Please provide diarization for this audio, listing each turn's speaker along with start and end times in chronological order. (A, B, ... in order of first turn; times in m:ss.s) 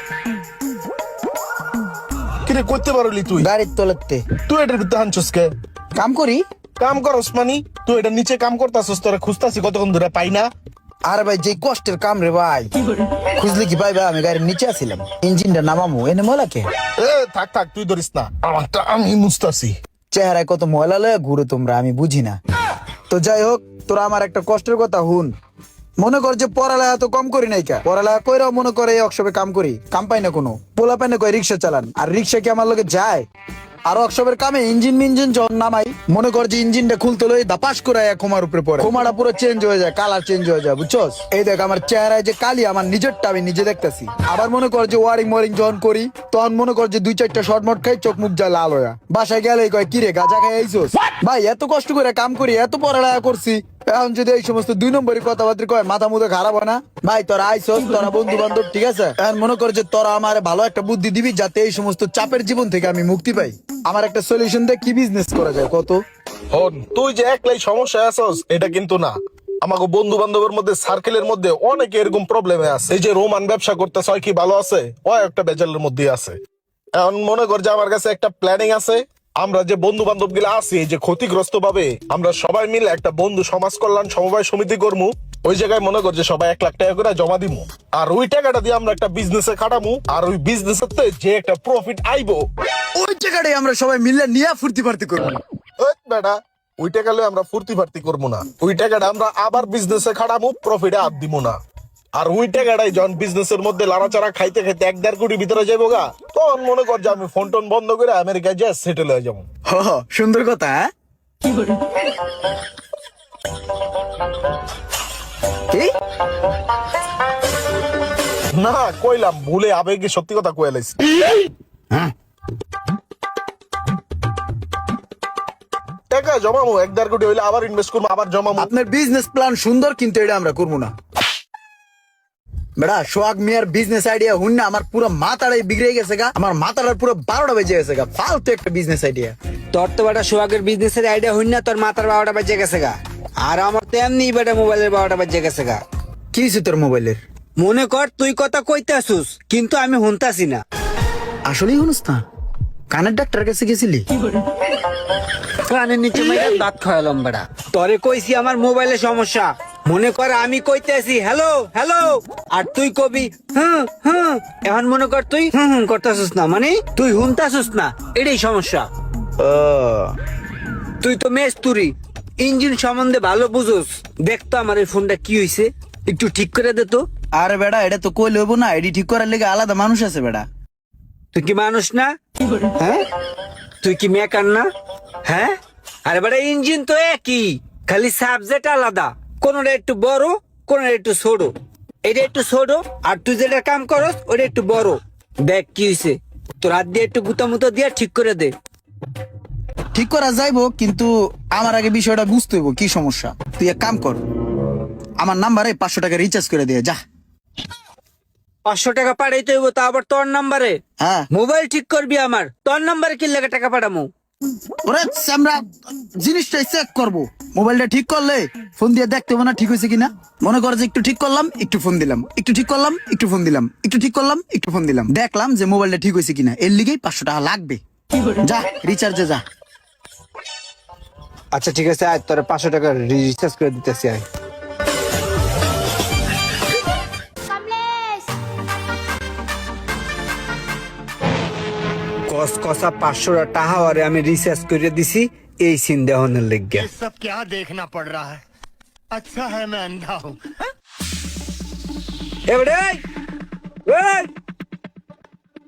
0:02.5-0:03.5 A
0:03.4-0:04.2 B
0:04.5-0:05.5 A
0:06.0-0:06.4 B
0:06.8-0:10.5 A
0:11.0-0:12.7 B
0:13.4-0:16.7 B
0:17.0-0:19.8 A
0:20.1-0:22.4 B
0:23.1-0:25.3 B
0:26.0-0:33.2 B
0:33.9-1:06.0 B
1:06.5-1:16.4 A
1:17.0-1:32.4 A
1:33.0-1:35.4 B
1:35.8-1:41.6 A
1:42.2-1:49.4 A
1:49.7-1:50.8 B
1:58.5-2:01.0 A
2:06.1-2:08.7 A
2:08.6-2:10.9 B
2:12.8-2:19.3 B
2:19.7-2:25.8 C
2:26.3-2:27.2 B
2:27.6-2:30.6 C
2:31.5-2:32.2 B
2:32.9-2:34.1 B
2:35.6-2:48.9 C
2:49.4-2:50.2 B
2:51.0-2:57.0 C
2:57.4-3:00.4 B
3:01.3-3:02.1 C
3:02.8-3:03.0 C
3:03.8-3:04.7 C
3:05.2-3:05.5 C
3:06.0-3:11.5 C
3:12.0-3:18.5 C
3:19.9-3:24.2 B
3:25.2-3:27.0 B
3:28.6-3:30.8 C
3:31.0-3:31.2 B
3:31.3-3:34.1 C
3:34.8-3:47.8 B
3:48.4-3:49.4 B
3:51.5-3:54.2 C
4:02.3-4:06.9 C
4:06.8-4:08.4 D
4:09.1-4:10.4 D
4:12.5-4:13.0 C
4:13.8-4:14.3 C